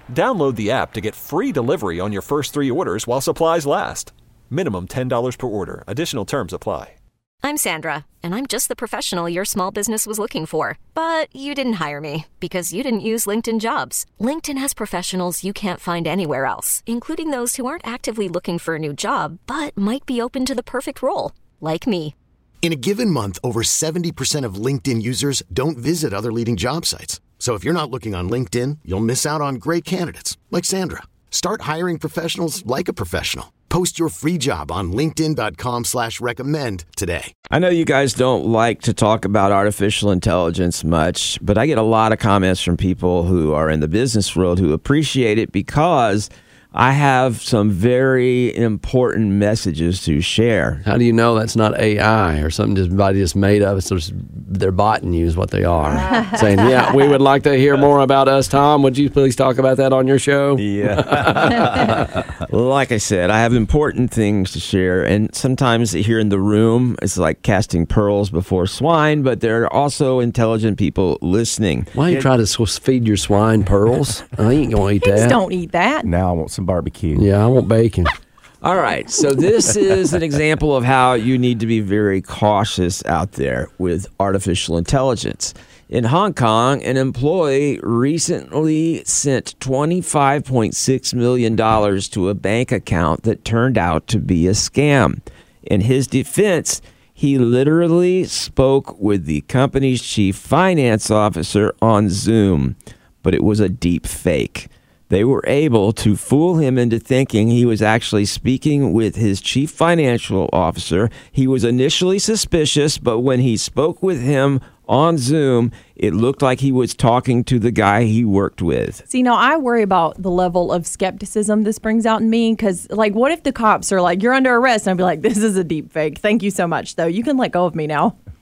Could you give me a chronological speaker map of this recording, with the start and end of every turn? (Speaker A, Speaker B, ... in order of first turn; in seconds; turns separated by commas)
Speaker A: 0.1-7.0, Speaker B: 7.4-22.1, Speaker C: 22.6-37.3, Speaker D: 37.5-50.8, Speaker E: 50.9-62.0, Speaker F: 60.6-62.4, Speaker D: 62.5-71.9, Speaker E: 72.0-75.4, Speaker G: 75.0-76.1, Speaker F: 76.0-77.3, Speaker E: 77.2-78.1, Speaker D: 78.6-119.0, Speaker G: 119.1-128.2